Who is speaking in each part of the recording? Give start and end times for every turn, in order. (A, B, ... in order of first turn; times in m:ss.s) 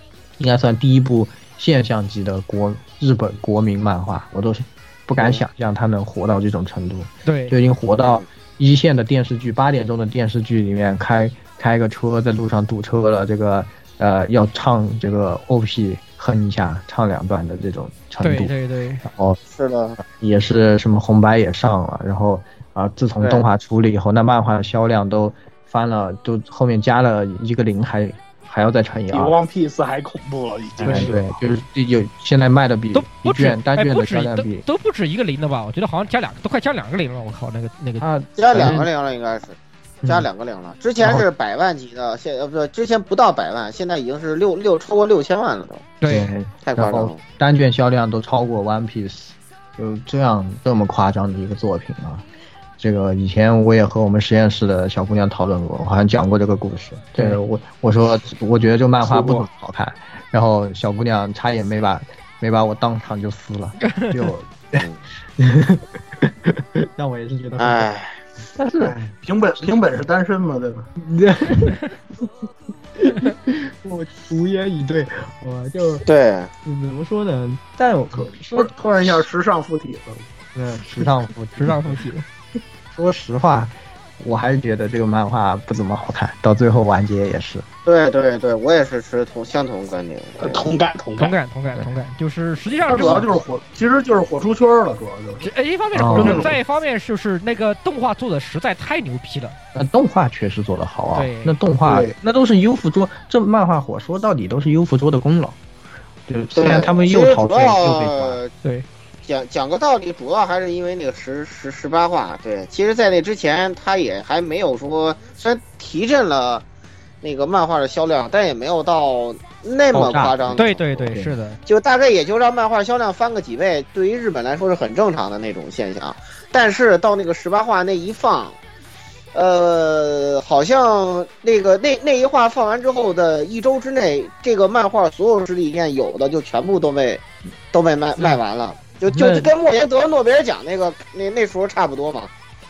0:00.4-0:19.4 A
0:07.3-0:07.6 B
0:18.2-0:19.0 B
0:19.6-0:20.0 C
0:20.0-0:29.4 A
0:29.1-0:31.4 D
0:30.8-0:34.7 A
0:32.9-0:38.1 B
0:38.0-0:38.9 A
0:38.4-0:45.8 C
0:41.0-0:41.3 A
0:46.0-0:46.3 B
0:46.0-0:52.2 A
0:46.7-0:47.2 C
0:52.8-1:04.9 A
1:03.9-1:04.1 B
1:05.4-1:07.9 A
1:07.6-1:08.2 C
1:08.6-1:09.1 A
1:08.8-1:10.9 E
1:11.0-1:11.8 A
1:13.0-1:16.1 A
1:16.1-1:16.5 C
1:16.6-1:18.7 A
1:18.2-1:20.3 E
1:20.6-1:22.0 A
1:21.6-1:22.3 B
1:22.9-1:27.7 A
1:27.9-1:30.6 C
1:30.4-1:31.4 D
1:31.2-1:33.4 B
1:32.8-1:35.5 E
1:35.4-1:39.6 B
1:36.0-1:36.5 A
1:36.1-1:36.6 E
1:39.7-1:45.6 A
1:41.2-1:41.6 B
1:41.8-1:42.1 E
1:46.3-1:48.4 A
1:46.6-1:48.5 C
1:49.3-1:56.6 C
1:57.2-2:01.1 C
1:59.9-2:01.4 A
2:00.6-2:01.6 B
2:01.7-2:08.6 C
2:09.3-2:22.3 C
2:19.1-2:19.5 A